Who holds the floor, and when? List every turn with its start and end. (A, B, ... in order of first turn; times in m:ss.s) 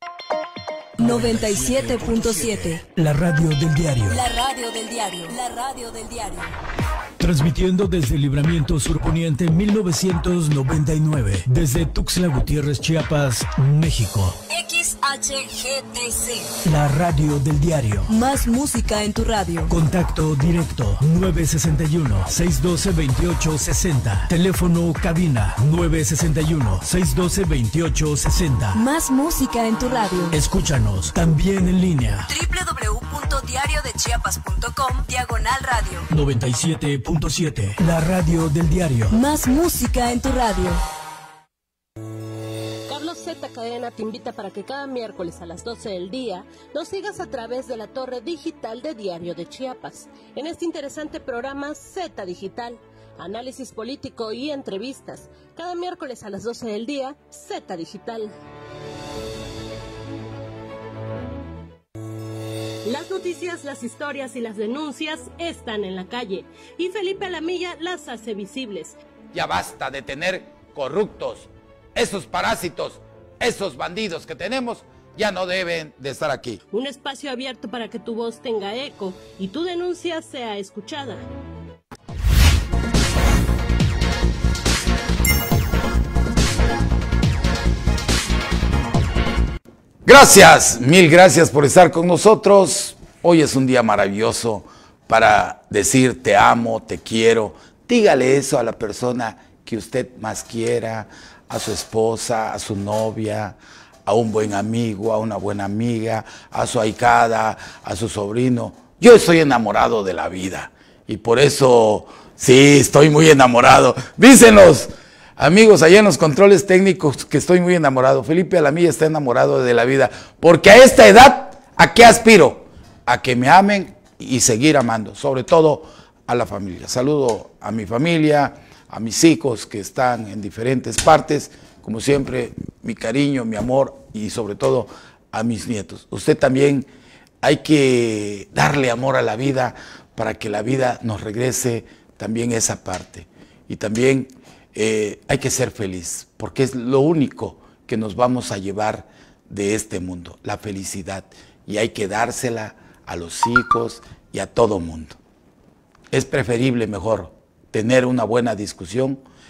0:01.0-0:02.8 A
0:01.0-0:04.2 B
0:04.1-0:06.6 A
0:07.2-0:14.4 B
0:14.5-0:16.5 A
0:16.6-0:18.1 B
0:18.1-0:19.7 A
0:19.7-0:28.8 B
0:28.7-0:30.4 A
0:30.3-0:32.3 B
0:32.3-0:36.1 A
0:36.1-0:39.2 B
0:39.1-0:40.8 A
0:42.9-0:58.3 C
1:02.8-1:09.0 C
1:09.3-1:16.6 D
1:16.7-1:21.2 C
1:30.0-2:16.9 D
2:17.4-2:35.2 D
2:36.1-2:39.2 D